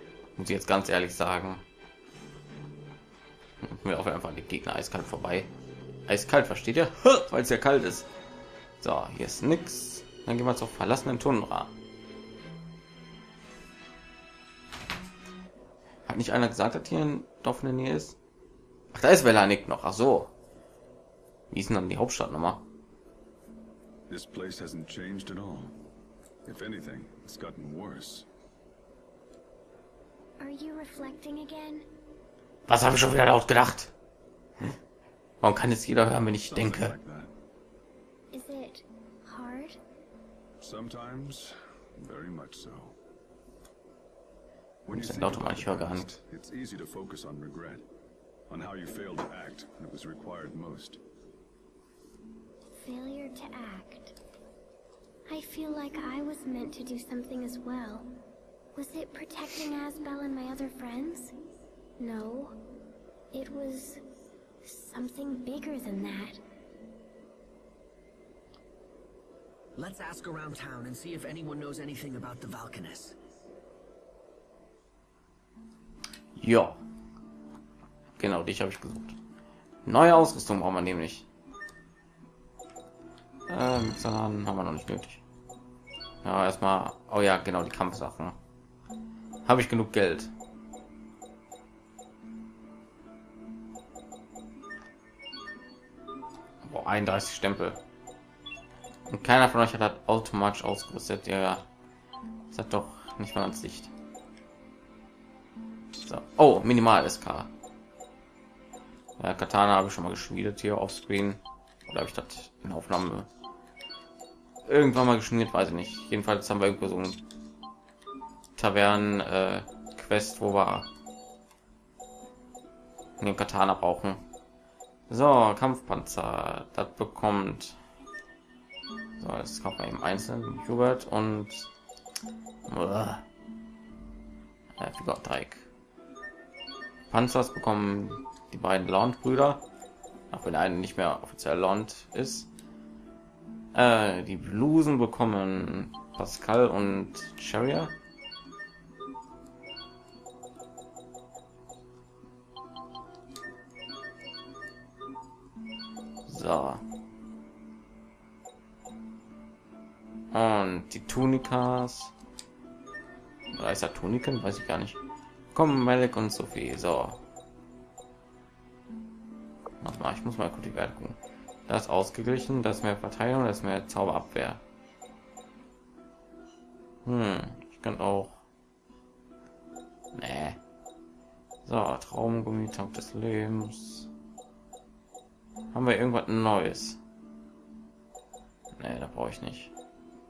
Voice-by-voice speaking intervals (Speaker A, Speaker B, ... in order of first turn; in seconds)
Speaker A: 0.4-1.6, 3.6-5.5, 6.1-8.1, 8.8-11.7, 16.1-18.2, 18.9-20.3, 21.5-22.6, 32.7-33.9, 35.4-37.0, 44.9-46.1, 76.4-76.8, 78.2-79.2, 79.9-81.3, 83.5-85.2, 86.2-88.4, 89.5-90.3, 96.6-97.8, 99.1-101.7, 102.5-103.9, 105.9-107.5, 109.2-113.3, 114.7-117.2, 118.6-120.9, 123.2-124.2, 125.1-127.8, 129.2-131.7, 132.7-133.2, 134.8-135.7, 137.1-139.6, 140.3-142.5, 143.7-147.9, 156.3-156.8, 160.3-162.1, 163.5-165.0, 165.5-167.2, 169.8-174.6, 177.1-178.4, 180.2-180.6, 181.7-184.1, 185.7-187.0, 188.8-189.7
Speaker B: 24.1-25.7, 26.4-28.3, 36.4-37.3, 40.6-43.0, 44.9-47.9, 48.5-51.0
Speaker C: 30.4-31.9, 38.3-39.8, 52.7-54.2, 55.3-58.1, 58.8-61.3, 62.0-62.6, 63.3-64.0, 64.6-66.4
Speaker D: 69.8-73.2